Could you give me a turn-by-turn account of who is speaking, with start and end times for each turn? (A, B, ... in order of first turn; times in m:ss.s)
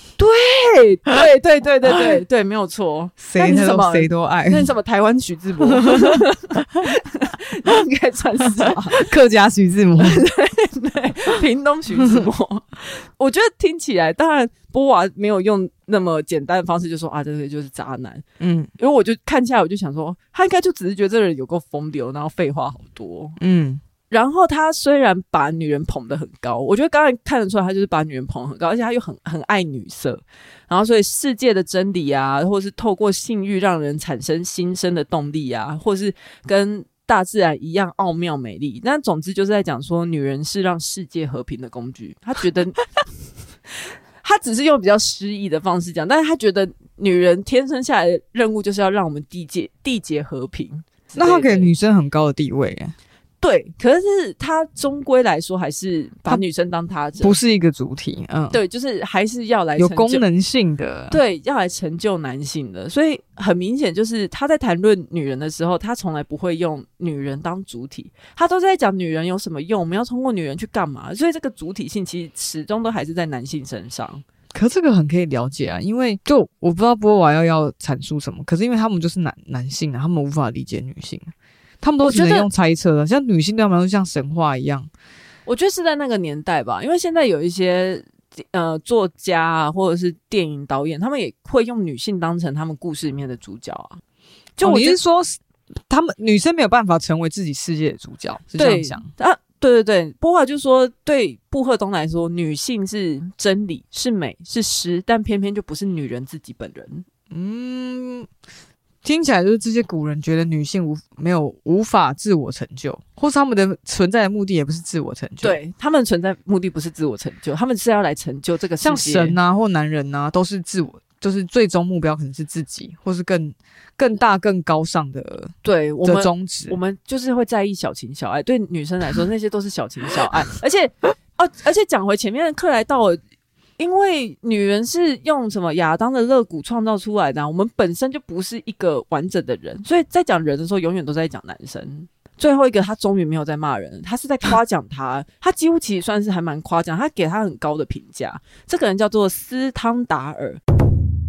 0:00.2-0:09.1 A
0:03.2-0:04.7 B
0:05.6-0:06.2 B
0:08.9-0:10.2 B
0:10.0-0:18.2 A
0:18.4-0:18.7 B
0:18.8-0:23.4 A
0:23.4-0:23.8 B
0:24.1-0:42.8 A
0:44.2-0:51.7 A
0:51.2-0:53.0 B
0:53.4-0:57.4 A
0:57.2-0:58.6 B
0:58.5-1:00.2 A
0:59.8-1:01.2 B
1:01.1-1:14.2 A
1:14.5-1:24.9 B
1:22.0-1:22.5 A
1:25.5-1:34.0 A
1:34.6-1:35.0 A
1:34.6-1:39.1 B
1:38.6-1:47.1 A
1:47.3-1:48.3 B
1:49.0-1:55.6 B
1:55.4-1:59.4 A
1:58.8-2:06.8 B
2:05.6-2:13.2 A
2:13.8-2:30.6 A